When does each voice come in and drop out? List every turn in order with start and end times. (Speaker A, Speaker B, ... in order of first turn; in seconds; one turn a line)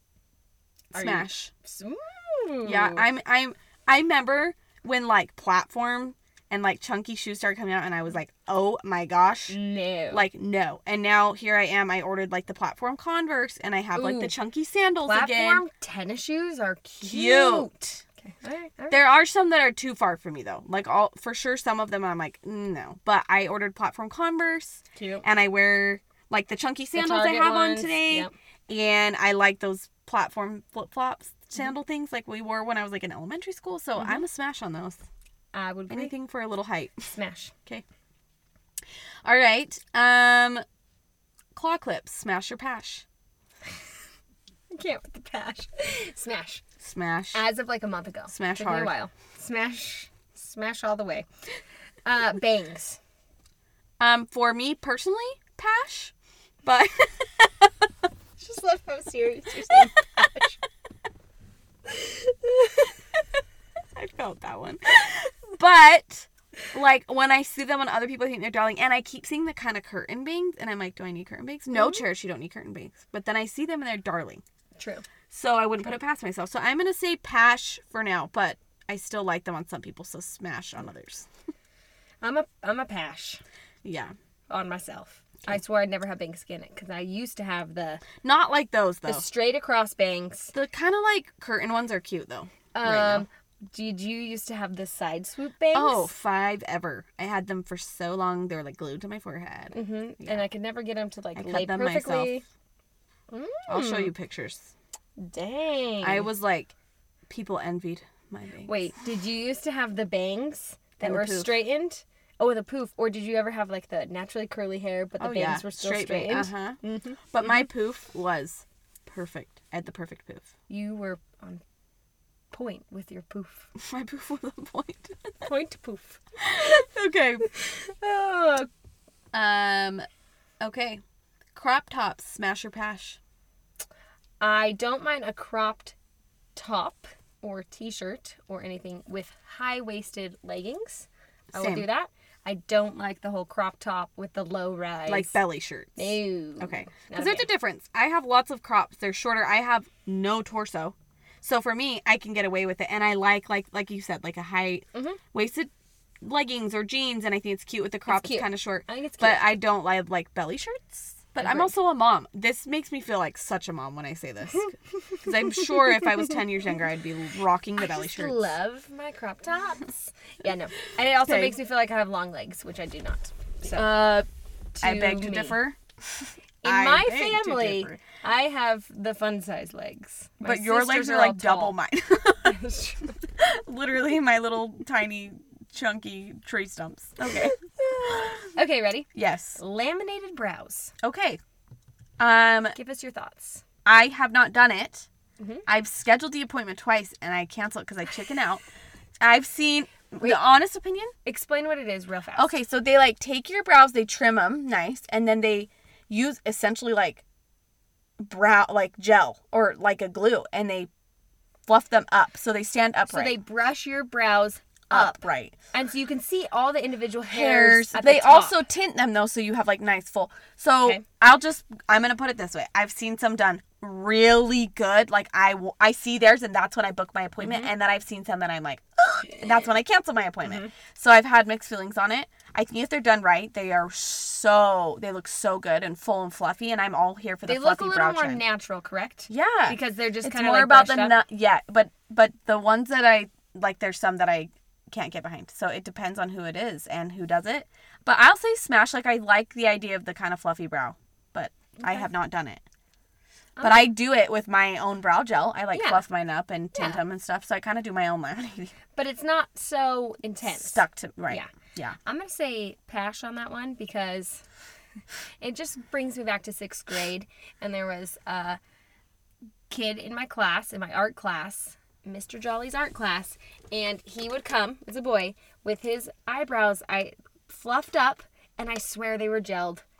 Speaker A: 0.9-1.5
Speaker B: 0.9-3.0
Speaker A: 2.6-9.6
Speaker B: 9.5-10.3
Speaker A: 10.1-15.6
Speaker B: 13.9-14.3
Speaker B: 15.0-19.0
Speaker A: 17.0-17.7
Speaker A: 18.9-35.0
Speaker B: 24.9-25.2
Speaker B: 26.9-28.3
Speaker B: 34.0-34.2
Speaker B: 35.5-36.1
Speaker A: 35.9-37.1
Speaker B: 37.1-37.5
Speaker A: 39.2-40.6
Speaker A: 41.5-43.0
Speaker B: 44.7-46.6
Speaker A: 46.8-47.4
Speaker B: 47.3-51.2
Speaker A: 48.3-48.9
Speaker B: 52.0-53.0
Speaker A: 54.0-56.1
Speaker A: 56.6-57.9
Speaker B: 58.4-60.6
Speaker B: 61.9-62.9
Speaker A: 63.9-74.4
Speaker B: 71.7-72.0
Speaker B: 74.8-75.0
Speaker A: 75.3-81.2
Speaker B: 82.2-83.4
Speaker A: 83.8-84.1
Speaker B: 84.5-88.0
Speaker A: 88.2-89.2
Speaker B: 89.1-90.5
Speaker A: 90.5-93.2
Speaker B: 92.7-96.1
Speaker A: 95.7-100.4
Speaker B: 99.7-102.4
Speaker A: 101.3-102.3
Speaker B: 103.3-104.1
Speaker A: 103.7-104.7
Speaker B: 105.2-106.3
Speaker A: 106.0-106.7
Speaker A: 107.3-108.8
Speaker B: 108.7-117.2
Speaker A: 111.0-111.5
Speaker A: 115.2-116.8
Speaker A: 117.3-120.5
Speaker B: 120.7-121.6
Speaker B: 122.5-123.7
Speaker A: 123.8-125.5
Speaker B: 125.4-126.8
Speaker A: 126.4-127.5
Speaker B: 127.5-128.7
Speaker A: 129.3-130.0
Speaker A: 130.6-131.0
Speaker A: 131.5-133.2
Speaker B: 134.4-135.9
Speaker B: 136.6-145.4
Speaker A: 141.5-141.8
Speaker A: 145.1-155.7
Speaker B: 145.9-147.5
Speaker B: 154.9-155.2
Speaker A: 156.2-168.5
Speaker B: 158.1-159.5
Speaker B: 161.4-161.7
Speaker B: 165.1-166.3
Speaker B: 167.8-174.0
Speaker A: 171.2-171.6
Speaker A: 173.7-174.3
Speaker B: 174.8-175.6
Speaker A: 174.8-178.0
Speaker B: 176.6-181.8
Speaker A: 180.4-182.6
Speaker B: 182.4-183.2
Speaker A: 183.4-187.6
Speaker B: 187.2-190.9
Speaker A: 189.1-189.6
Speaker A: 191.0-191.4
Speaker A: 192.2-192.8
Speaker B: 192.7-193.6
Speaker A: 193.8-195.1
Speaker B: 195.4-195.6
Speaker A: 195.7-198.6
Speaker A: 199.2-201.1
Speaker B: 201.2-202.5
Speaker A: 202.3-207.2
Speaker A: 208.2-210.9
Speaker A: 211.7-213.3
Speaker B: 213.1-218.6
Speaker A: 214.9-215.6
Speaker A: 217.3-238.4
Speaker B: 227.4-227.7
Speaker B: 230.4-230.7
Speaker B: 237.4-241.2
Speaker A: 239.3-252.6
Speaker B: 251.8-252.1
Speaker B: 253.6-253.9
Speaker A: 253.6-258.7
Speaker B: 255.7-256.0
Speaker B: 256.7-257.0
Speaker B: 258.9-261.5
Speaker A: 260.4-261.9
Speaker B: 262.0-264.4
Speaker B: 265.4-268.6
Speaker B: 269.7-279.8